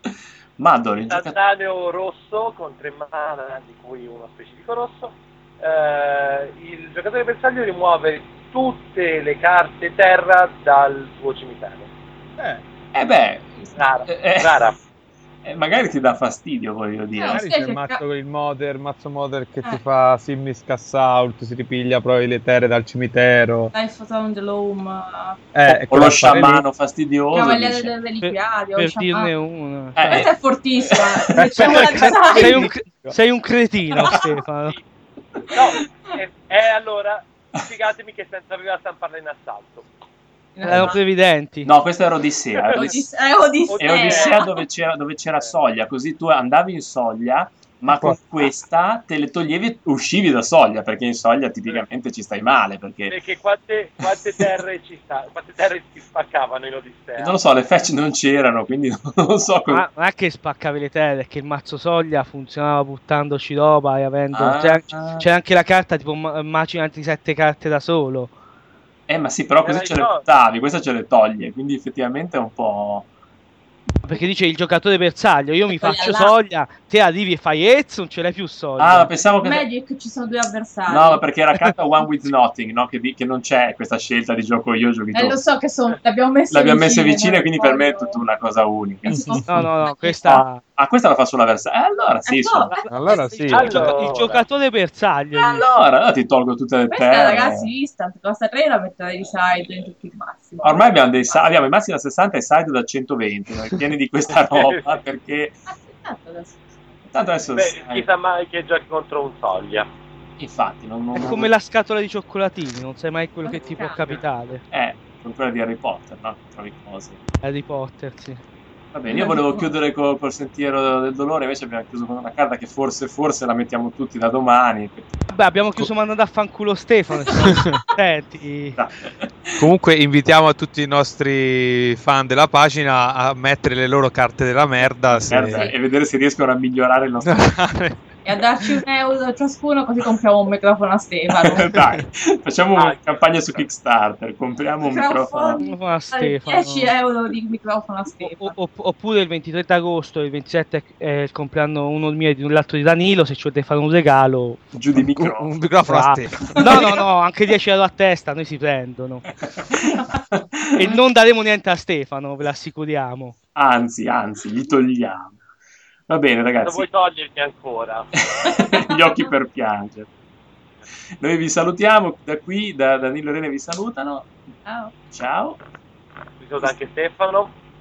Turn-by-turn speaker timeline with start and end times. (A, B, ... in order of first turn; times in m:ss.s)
0:00.6-0:01.4 A
0:01.1-0:11.9 B
0:12.9-0:14.6 A
0:13.8-0:14.8 B
0:15.4-0:17.4 A
0:17.1-0:18.0 C
0:17.3-0:23.7 D
0:23.7-0:25.4 C
0:25.5-0:26.6 D
0:25.7-0:27.9 A
0:27.3-0:29.3 C
0:28.2-0:30.2 E
0:30.0-0:31.5 A
0:30.0-0:32.7 C
0:31.4-0:33.1 D
0:31.4-0:34.8 E
0:33.9-0:34.2 C
0:35.4-0:35.8 A
0:35.5-0:39.9 B
0:40.6-0:41.0 C
0:40.6-0:41.7 E
0:40.7-0:40.9 D
0:41.6-0:43.1 A
0:42.7-0:44.5 C
0:43.6-0:44.4 B
0:43.8-0:53.1 A
0:47.9-0:48.2 D
0:53.1-0:57.4 B
0:54.0-0:54.4 A
0:57.2-0:59.8 A
0:59.7-1:08.3 E
1:04.3-1:05.2 A
1:09.1-1:13.1 A
1:09.6-1:10.2 B
1:14.0-1:19.1 E
1:15.7-1:16.3 C
1:18.8-1:19.6 A
1:19.4-1:21.2 C
1:20.9-1:25.4 A
1:25.1-1:28.2 C
1:26.5-1:29.4 A
1:29.1-1:29.7 D
1:29.1-1:30.4 C
1:29.5-1:30.6 E
1:30.2-1:32.7 A
1:32.3-1:33.2 C
1:32.7-1:35.7 E
1:32.9-1:34.0 D
1:33.5-1:34.4 B
1:35.4-1:37.7 A
1:36.9-1:41.4 C
1:40.6-1:45.6 A
1:44.3-1:45.0 B
1:45.7-1:47.1 C
1:47.1-1:48.1 A
1:47.5-1:49.9 B
1:50.4-1:51.5 A
1:51.1-1:54.6 E
1:53.4-1:54.1 C
1:53.6-1:54.2 B
1:54.7-1:57.2 A
1:57.4-1:58.4 E
1:58.9-2:05.2 A
1:59.1-1:59.7 C
2:05.3-2:08.8 E
2:07.5-2:07.8 D
2:08.7-2:09.6 A
2:09.6-2:15.7 D
2:15.1-2:17.6 A
2:17.2-2:18.0 D
2:18.2-2:21.7 C
2:21.4-2:25.6 A
2:21.7-2:22.0 D
2:22.7-2:23.6 B
2:24.8-2:28.5 C
2:25.6-2:26.9 E
2:28.2-2:34.6 E
2:34.7-2:35.6 A
2:34.9-2:37.0 D
2:35.8-2:39.2 E
2:39.5-2:41.0 A
2:40.7-2:43.3 E
2:43.5-2:45.4 A
2:46.1-2:46.8 A
2:46.6-2:48.2 B
2:48.2-2:50.1 A
2:51.2-2:54.3 A
2:54.6-2:54.9 C
2:55.1-2:55.6 A
2:56.4-2:57.5 B